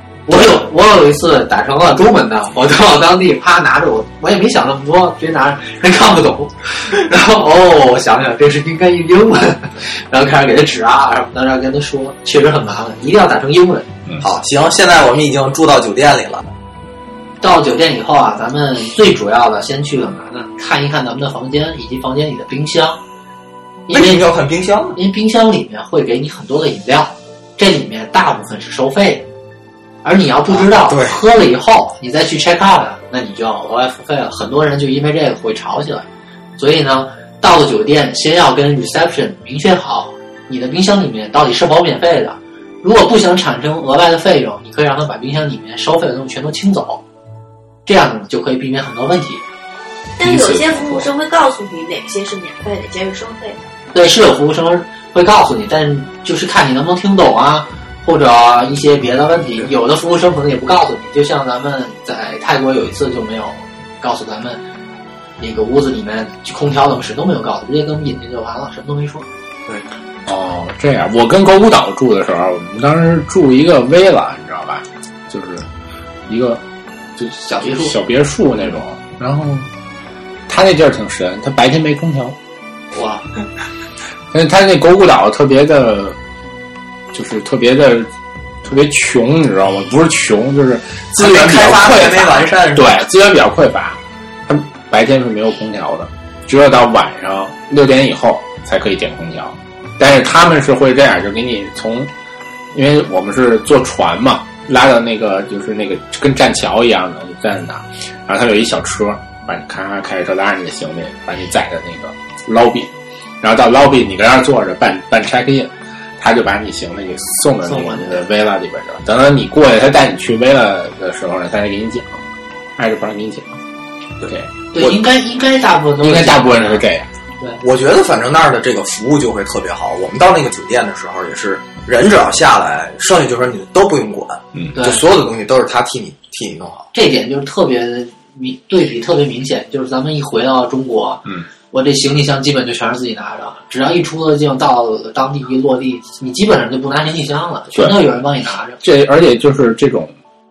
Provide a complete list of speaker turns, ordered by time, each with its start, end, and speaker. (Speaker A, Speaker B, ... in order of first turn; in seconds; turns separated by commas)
Speaker A: 0.3-13.9, Speaker B: 14.2-16.5, Speaker A: 17.4-23.0, Speaker A: 23.9-24.2, Speaker B: 23.9-25.0, Speaker A: 24.9-29.3, Speaker A: 30.0-47.0, Speaker B: 30.5-31.2, Speaker A: 47.9-49.4, Speaker C: 50.2-53.7, Speaker D: 50.2-51.1, Speaker A: 53.9-64.6, Speaker A: 65.4-69.2, Speaker D: 70.2-75.7, Speaker D: 76.3-76.6, Speaker D: 77.2-79.7, Speaker A: 77.4-78.0, Speaker D: 80.5-82.3, Speaker A: 82.9-83.2, Speaker D: 84.3-86.2, Speaker D: 87.1-88.1, Speaker D: 88.6-102.1, Speaker B: 91.1-93.0, Speaker D: 102.7-122.2, Speaker A: 117.6-118.2, Speaker D: 122.8-123.5, Speaker B: 124.2-125.0, Speaker A: 124.7-126.8, Speaker D: 126.0-127.1, Speaker B: 127.6-136.9, Speaker A: 134.7-135.0, Speaker A: 136.9-148.8, Speaker D: 148.8-150.1